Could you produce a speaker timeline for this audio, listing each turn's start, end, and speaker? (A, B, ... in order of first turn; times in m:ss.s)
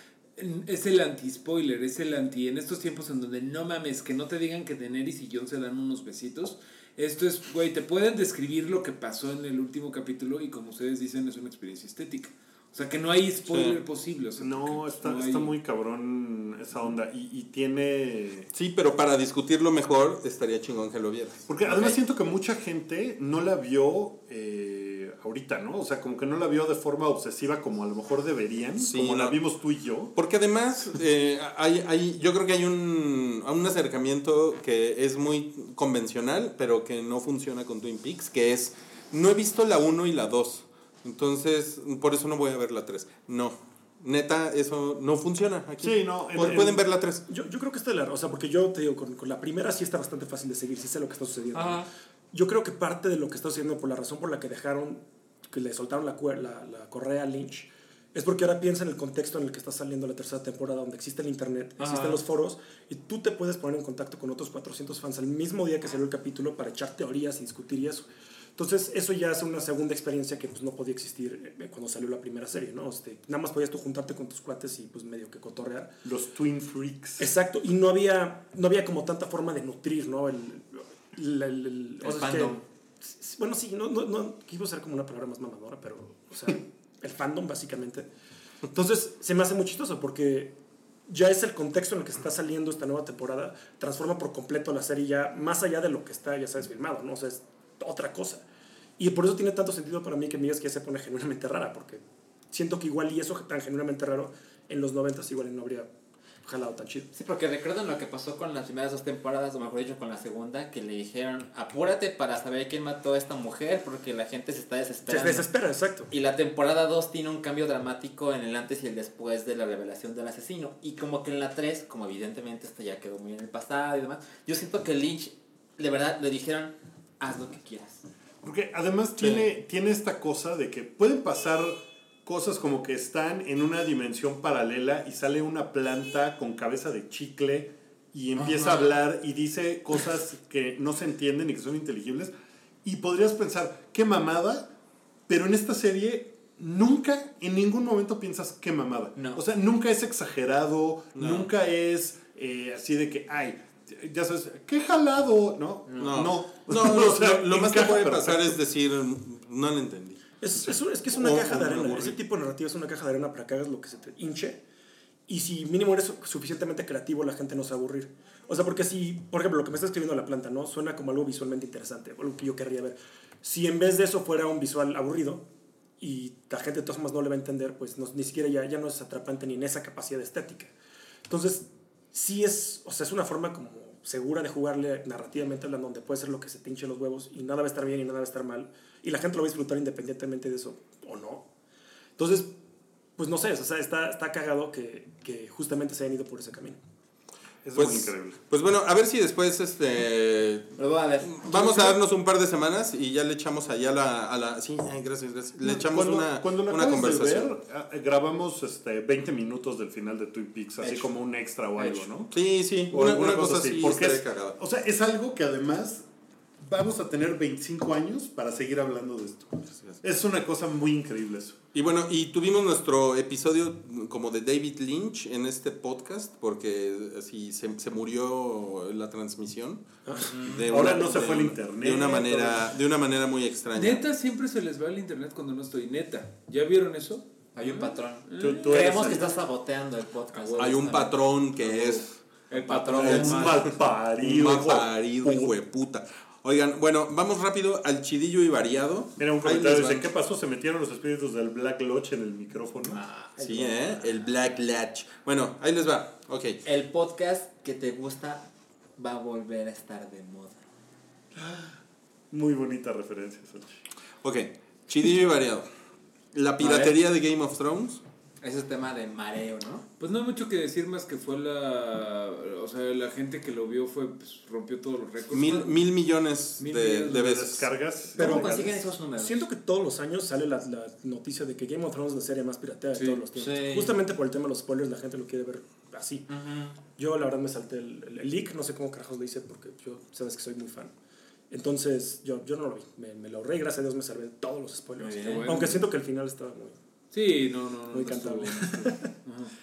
0:00.4-0:15.5 A
0:13.5-0:13.8 B
0:14.4-0:18.5 C
0:18.5-0:21.8 B
0:21.5-0:30.1 C
0:28.8-0:29.4 B
0:30.1-0:47.2 B
0:45.8-0:46.8 C
0:47.3-1:16.0 D
0:51.5-0:51.9 E
1:01.8-1:02.2 E
1:16.0-1:17.2 C
1:17.2-1:28.1 D
1:22.0-1:22.6 E
1:28.7-1:38.4 D
1:39.0-1:45.9 D
1:46.4-1:47.1 D
1:47.1-1:55.4 E
1:55.1-1:56.1 D
1:56.1-2:08.0 E
2:08.4-2:22.3 C
2:09.2-2:09.4 B
2:18.4-2:19.0 E
2:22.8-2:24.7 C
2:25.3-2:38.6 C
2:29.2-2:29.4 E
2:31.1-2:31.5 B
2:35.8-2:36.2 E
2:36.0-2:40.2 B
2:40.4-2:44.6 D
2:41.1-2:42.2 B
2:45.3-2:55.4 D
2:56.0-3:00.7 D
3:01.3-3:11.5 D
3:12.2-3:12.5 D
3:13.2-3:16.8 D
3:17.6-3:18.4 C
3:17.7-3:20.7 B
3:20.8-3:22.0 E
3:21.2-3:27.5 B
3:25.6-3:32.3 C
3:30.8-3:31.1 E
3:31.8-3:32.0 E
3:32.3-3:34.6 B
3:32.9-3:36.0 C
3:36.6-3:41.6 C
3:41.7-3:49.9 B
3:50.1-3:50.4 D
3:50.2-3:50.9 E
3:50.4-3:54.0 B
3:50.6-3:52.6 C
3:53.7-3:59.1 A
3:57.5-4:01.1 E
3:58.4-3:59.4 C
4:00.3-4:01.0 A
4:00.6-4:02.1 B
4:02.5-4:03.7 A
4:02.5-4:03.6 E
4:02.9-4:05.5 C
4:04.2-4:10.1 B
4:09.2-4:13.0 C
4:12.8-4:14.2 E
4:13.4-4:16.6 B
4:16.6-4:18.4 E
4:19.0-4:20.6 E
4:21.4-4:21.8 C
4:22.3-4:23.8 C
4:24.2-4:25.7 B
4:26.3-4:28.0 B
4:26.6-4:27.0 E
4:28.4-4:29.8 E
4:30.0-4:35.8 A
4:35.3-4:37.6 B
4:36.6-4:37.4 A
4:37.1-4:38.8 C
4:38.2-4:39.3 E
4:38.2-4:46.2 D
4:42.9-4:43.2 A
4:43.3-4:43.9 E
4:46.3-4:46.8 E
4:46.9-4:50.9 D
4:51.5-4:56.8 D
4:55.0-4:55.6 E
4:55.2-4:55.8 A
4:57.1-4:59.5 A
4:57.9-4:59.1 D